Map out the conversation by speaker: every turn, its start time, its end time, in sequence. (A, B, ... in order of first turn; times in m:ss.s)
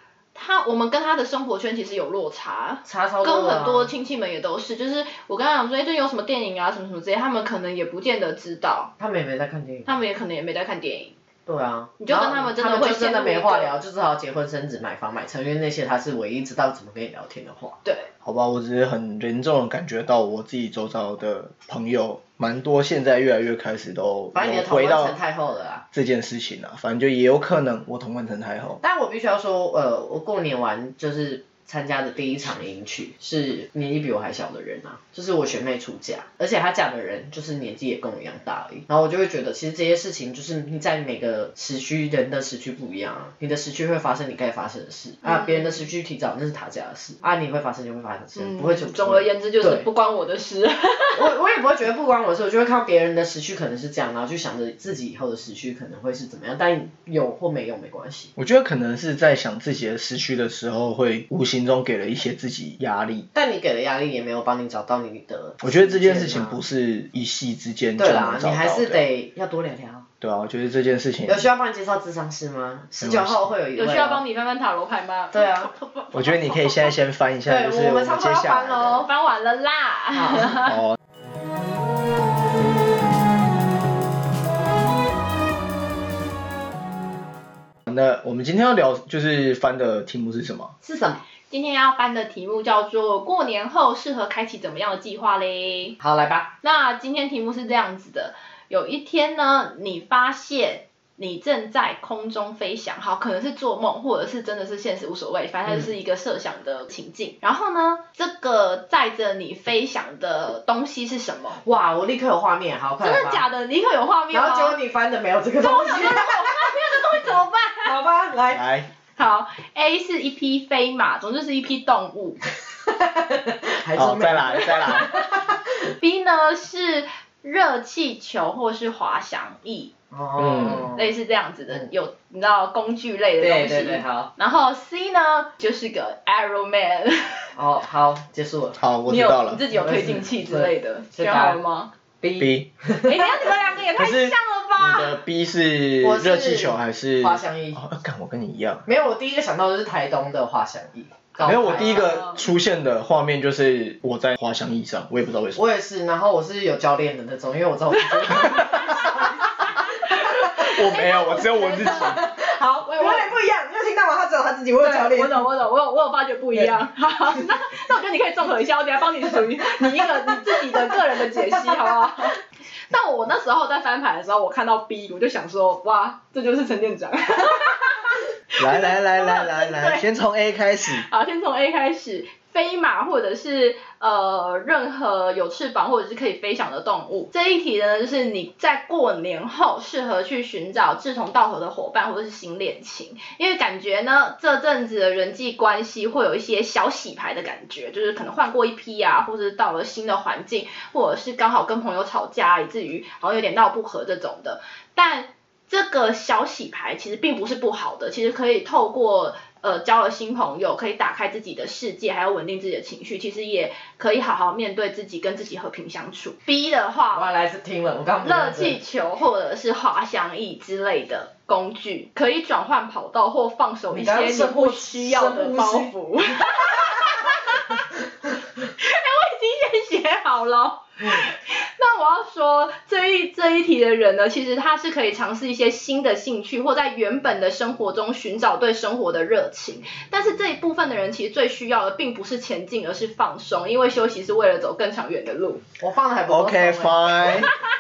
0:00.3-0:08.9 A
0:02.8-0:03.9 B
0:09.0-0:10.0 B
0:09.9-0:11.1 A
0:11.5-0:17.8 B
0:12.0-0:13.8 A
0:18.2-0:25.1 C
0:24.3-0:25.8 B
0:25.9-0:28.8 C
0:28.8-0:49.9 B
0:45.2-0:45.8 A
0:48.4-0:51.4 A
0:51.1-0:58.3 B
0:58.4-1:03.3 C
1:03.3-1:06.6 B
1:05.6-1:09.0 C
1:08.0-1:10.1 B
1:10.2-1:11.5 C
1:11.3-1:14.2 B
1:13.0-1:13.5 C
1:13.8-1:16.9 A
1:15.3-1:15.7 B
1:16.1-1:18.9 C
1:17.4-1:19.1 B
1:19.0-1:20.8 A
1:20.1-1:20.6 B
1:20.6-1:21.0 C
1:27.9-1:30.7 C
1:30.8-1:31.2 B
1:31.5-1:36.0 A
1:36.0-1:36.5 B
1:36.6-1:51.6 A
1:51.6-1:53.4 B
1:53.0-1:54.8 A
1:54.3-1:56.7 B
1:55.6-1:58.0 A
1:57.8-1:58.6 B
1:58.5-1:58.9 C
1:59.2-2:02.4 A
2:02.9-2:05.9 B
2:03.9-2:05.1 C
2:06.0-2:09.9 A
2:10.1-2:11.1 B
2:10.4-2:10.9 C
2:10.9-2:17.4 A
2:13.4-2:14.3 B
2:17.6-2:18.8 B
2:18.8-2:19.6 C
2:19.1-2:21.9 A
2:19.7-2:21.6 B
2:22.2-2:23.5 B
2:22.4-2:22.7 C
2:23.0-2:25.2 A
2:24.0-2:28.8 C
2:26.0-2:27.8 B
2:28.9-2:32.2 B
2:31.4-2:35.6 C
2:31.7-2:32.4 A
2:35.6-2:40.7 B
2:37.9-2:42.2 A
2:38.5-2:38.8 C
2:40.1-2:42.2 C
2:41.9-2:45.4 B
2:42.9-2:43.3 A
2:44.8-2:52.4 A
2:49.6-2:52.0 B
2:52.9-3:00.0 A
2:58.6-3:01.1 C
3:01.1-3:37.3 A
3:37.1-3:38.8 B
3:38.2-3:47.9 A
3:43.9-3:47.3 B
3:48.8-4:05.6 A
4:05.8-4:07.5 B
4:06.3-4:07.5 C